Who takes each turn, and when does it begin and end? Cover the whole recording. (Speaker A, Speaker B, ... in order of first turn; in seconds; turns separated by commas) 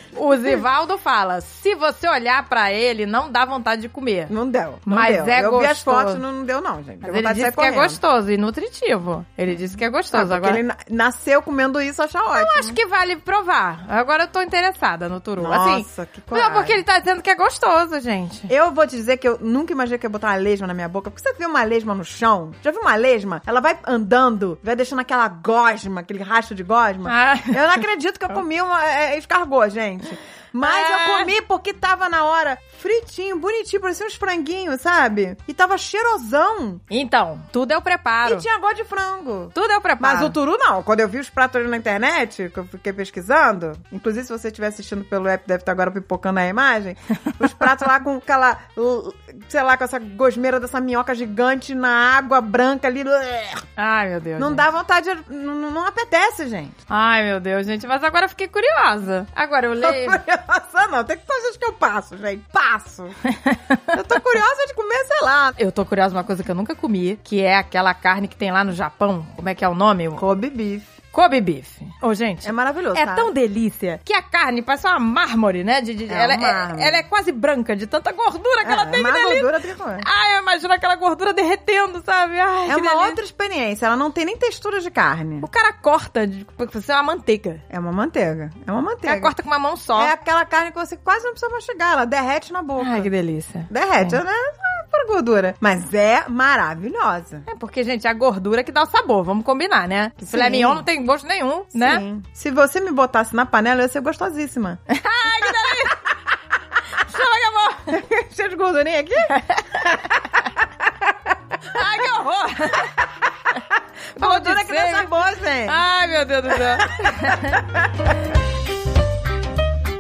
Speaker A: 0.1-4.3, Speaker B: 4.3-8.0, Speaker A: 4.9-6.2, Speaker A: 7.0-10.6, Speaker B: 10.1-12.8, Speaker A: 12.3-18.5, Speaker B: 15.4-16.8, Speaker B: 18.5-36.8, Speaker A: 27.1-27.6, Speaker A: 30.6-31.3, Speaker A: 36.9-38.5, Speaker B: 38.2-53.6, Speaker A: 39.5-40.4, Speaker A: 53.8-54.6, Speaker B: 54.4-56.8, Speaker A: 56.9-60.2, Speaker B: 59.8-63.2, Speaker A: 63.3-63.9, Speaker B: 63.9-65.6, Speaker A: 65.6-70.2, Speaker B: 70.2-70.9, Speaker A: 71.1-83.2, Speaker B: 72.4-73.3, Speaker B: 76.1-77.0, Speaker B: 78.6-80.1, Speaker B: 82.7-85.5, Speaker A: 85.4-87.6, Speaker B: 87.7-89.3, Speaker A: 89.0-90.1, Speaker B: 90.0-93.1, Speaker A: 92.8-94.2, Speaker B: 93.7-97.5, Speaker A: 97.5-102.0, Speaker B: 100.3-100.8, Speaker B: 101.7-104.8, Speaker A: 104.9-106.0, Speaker A: 107.0-108.0, Speaker B: 107.9-111.1, Speaker A: 109.3-109.8, Speaker A: 111.7-113.0, Speaker A: 114.2-115.1, Speaker B: 114.2-115.8, Speaker A: 115.7-117.6, Speaker B: 116.8-117.9